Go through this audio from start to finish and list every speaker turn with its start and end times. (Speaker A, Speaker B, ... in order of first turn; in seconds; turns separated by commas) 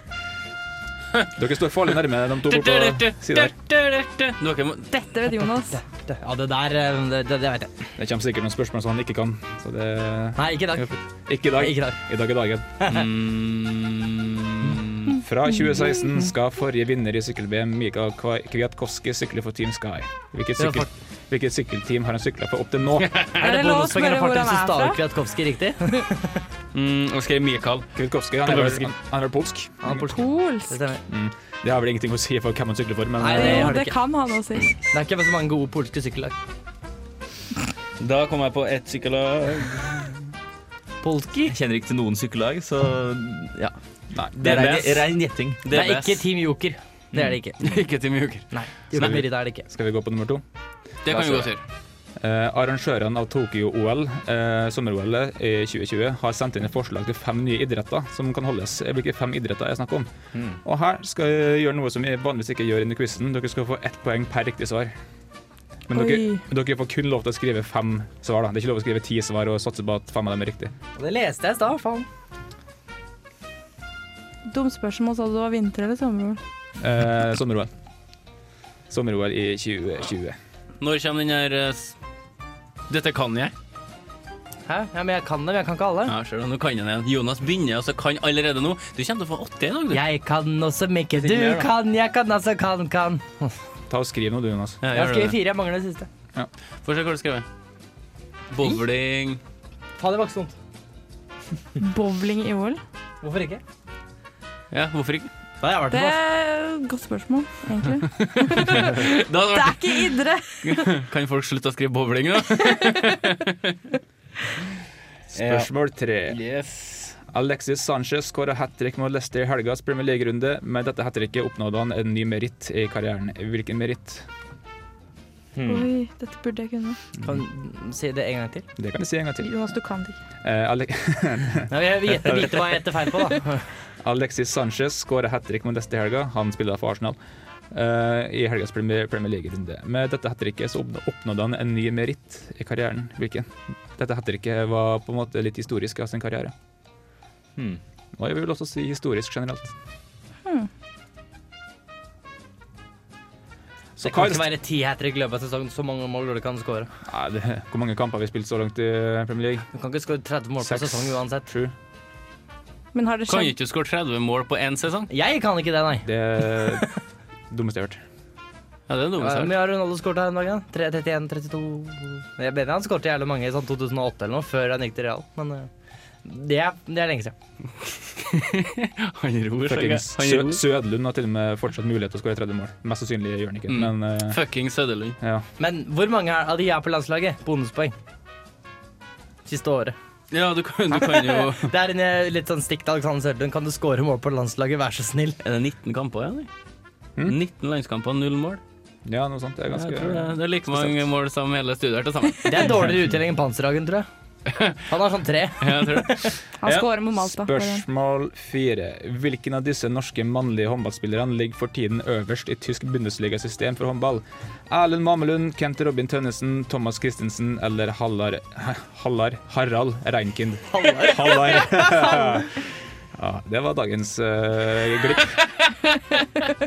Speaker A: 1.3-3.5, Speaker B: 2.4-4.9, Speaker C: 4.9-5.8, Speaker D: 5.7-7.7, Speaker A: 8.0-12.8, Speaker D: 10.4-10.9, Speaker D: 11.6-12.0, Speaker D: 12.8-13.1, Speaker B: 12.9-15.0, Speaker A: 15.1-23.2, Speaker D: 20.6-20.9, Speaker C: 23.4-25.0, Speaker D: 23.4-26.4, Speaker B: 26.7-27.9, Speaker A: 27.9-30.0, Speaker B: 28.4-28.9, Speaker D: 29.8-31.0, Speaker C: 30.1-30.8, Speaker A: 31.1-33.7, Speaker D: 33.2-34.0, Speaker C: 33.3-34.8, Speaker D: 34.8-36.3, Speaker B: 38.0-40.1, Speaker D: 41.0-41.5, Speaker E: 41.5-43.7, Speaker A: 44.1-44.6, Speaker E: 44.3-45.7, Speaker B: 44.4-45.1, Speaker B: 45.6-46.2, Speaker D: 45.7-47.6, Speaker B: 47.6-48.5, Speaker D: 48.5-49.6, Speaker A: 48.9-50.4, Speaker B: 51.0-51.6, Speaker E: 51.1-51.5, Speaker A: 52.2-60.1, Speaker E: 60.3-60.6, Speaker A: 60.6-64.9, Speaker A: 65.9-70.7, Speaker C: 65.9-66.4, Speaker D: 71.0-72.1, Speaker C: 74.5-76.4, Speaker A: 76.8-77.7, Speaker A: 78.9-80.3, Speaker B: 80.8-82.0, Speaker B: 82.9-83.5, Speaker D: 84.7-86.1, Speaker B: 86.1-90.0, Speaker D: 89.9-93.5, Speaker B: 91.2-91.7, Speaker A: 93.9-94.8, Speaker B: 94.8-95.3, Speaker D: 94.9-96.1, Speaker B: 96.8-97.5, Speaker B: 98.5-99.4, Speaker D: 100.0-100.5, Speaker C: 101.8-102.8, Speaker D: 103.2-103.6, Speaker B: 104.7-105.3, Speaker D: 105.6-106.2, Speaker C: 105.9-110.9, Speaker B: 108.2-113.8, Speaker A: 115.3-116.4, Speaker B: 115.3-115.7, Speaker B: 116.3-117.2, Speaker A: 117.3-124.2, Speaker E: 125.5-125.9, Speaker C: 125.6-127.0, Speaker D: 127.2-128.7, Speaker A: 128.8-129.5, Speaker C: 129.4-130.2, Speaker A: 130.4-132.8, Speaker D: 131.7-133.7, Speaker A: 134.0-137.2, Speaker A: 137.7-146.5, Speaker A: 148.1-149.7, Speaker A: 154.0-154.5, Speaker D: 154.0-156.9, Speaker A: 157.1-159.7, Speaker D: 159.7-161.5, Speaker A: 160.6-161.7, Speaker C: 162.9-163.5, Speaker B: 163.3-165.1, Speaker D: 165.1-166.1, Speaker A: 166.0-167.0, Speaker A: 167.5-168.0, Speaker B: 168.9-169.5, Speaker D: 169.2-175.7, Speaker D: 176.2-177.3, Speaker B: 178.2-180.6, Speaker A: 179.7-184.4, Speaker B: 183.7-185.2, Speaker A: 185.2-185.4, Speaker D: 185.6-187.9, Speaker D: 189.4-189.9, Speaker B: 190.3-191.7, Speaker D: 191.0-195.4, Speaker B: 195.4-196.5, Speaker B: 197.2-198.6, Speaker A: 199.1-201.1, Speaker B: 199.7-202.8, Speaker D: 202.4-204.1, Speaker B: 204.5-204.8, Speaker D: 204.9-206.3, Speaker B: 205.6-206.4, Speaker C: 206.6-207.8, Speaker A: 206.7-225.5, Speaker D: 220.7-221.4